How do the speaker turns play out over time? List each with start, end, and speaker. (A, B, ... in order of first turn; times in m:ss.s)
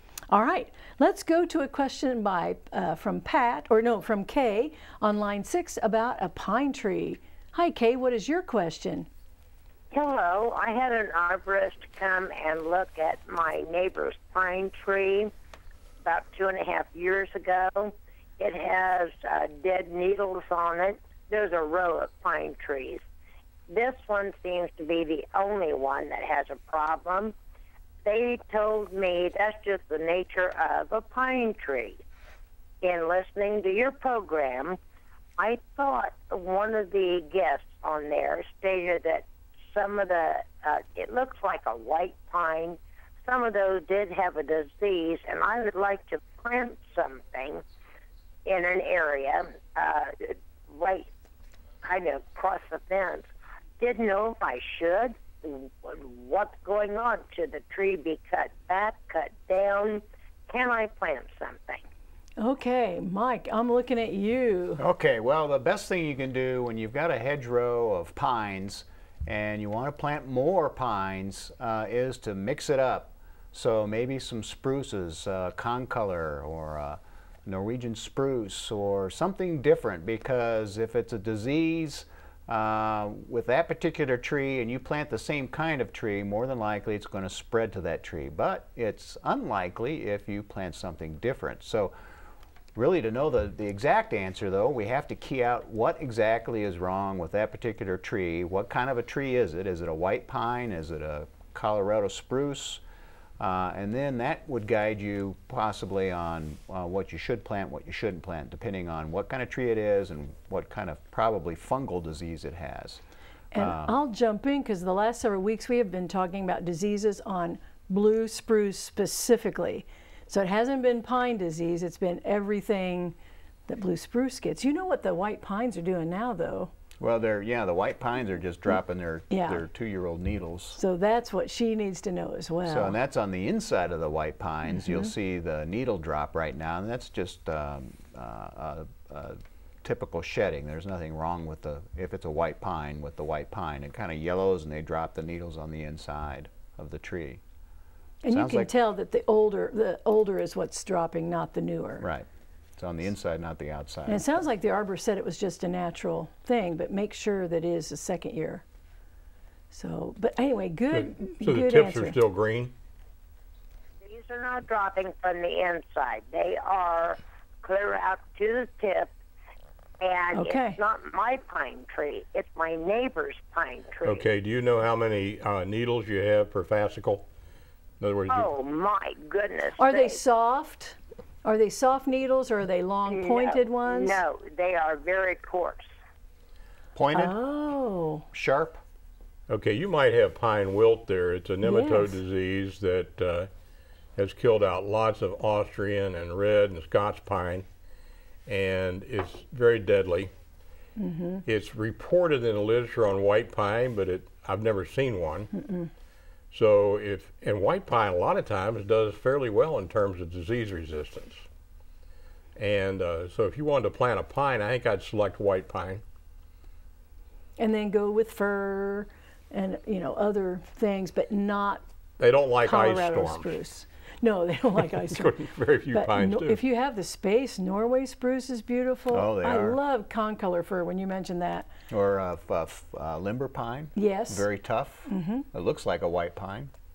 0:00.3-0:09.1 A
0:09.9-0:15.3 B
0:16.0-0:23.0 B
0:23.7-0:27.3 B
0:28.0-0:32.0 B
0:32.8-0:34.8 B
0:35.4-0:47.6 B
0:48.4-0:51.1 B
0:51.8-0:53.3 B
0:53.8-1:01.8 B
1:02.4-1:04.8 A
1:04.8-1:31.9 C
1:32.7-1:42.8 C
1:43.4-1:53.0 C
1:53.5-2:03.2 A
1:53.6-1:54.0 C
2:03.7-2:06.7 A
2:07.0-2:10.8 C
2:09.3-2:09.6 A
2:10.7-2:13.0 A
2:12.6-2:27.4 C
2:14.7-2:15.1 A
2:28.2-2:32.1 A
2:28.3-2:28.7 C
2:32.0-2:34.3 C
2:34.1-2:38.6 A
2:39.7-2:42.2 A
2:40.9-2:42.7 D
2:44.0-2:49.1 B
2:50.0-2:54.2 B
2:50.3-2:50.8 A
2:54.0-2:57.3 D
2:58.0-2:58.5 D
2:58.3-3:00.2 B
2:59.8-3:04.2 A
3:03.1-3:05.9 B
3:06.9-3:07.4 C
3:07.1-3:08.2 A
3:08.3-3:08.8 C
3:09.5-3:13.5 D
3:11.6-3:12.2 A
3:14.2-3:17.6 D
3:18.5-3:20.3 D
3:21.0-3:21.4 A
3:21.5-3:25.5 D
3:25.5-3:25.9 A
3:26.5-3:31.4 D
3:32.6-3:36.0 D
3:37.6-3:41.8 A
3:42.2-3:43.6 D
3:42.6-3:45.3 A
3:44.9-3:46.6 D
3:45.9-3:51.7 A
3:49.1-3:49.8 C
3:51.9-3:56.7 C
3:53.9-3:54.5 A
3:55.0-3:55.5 A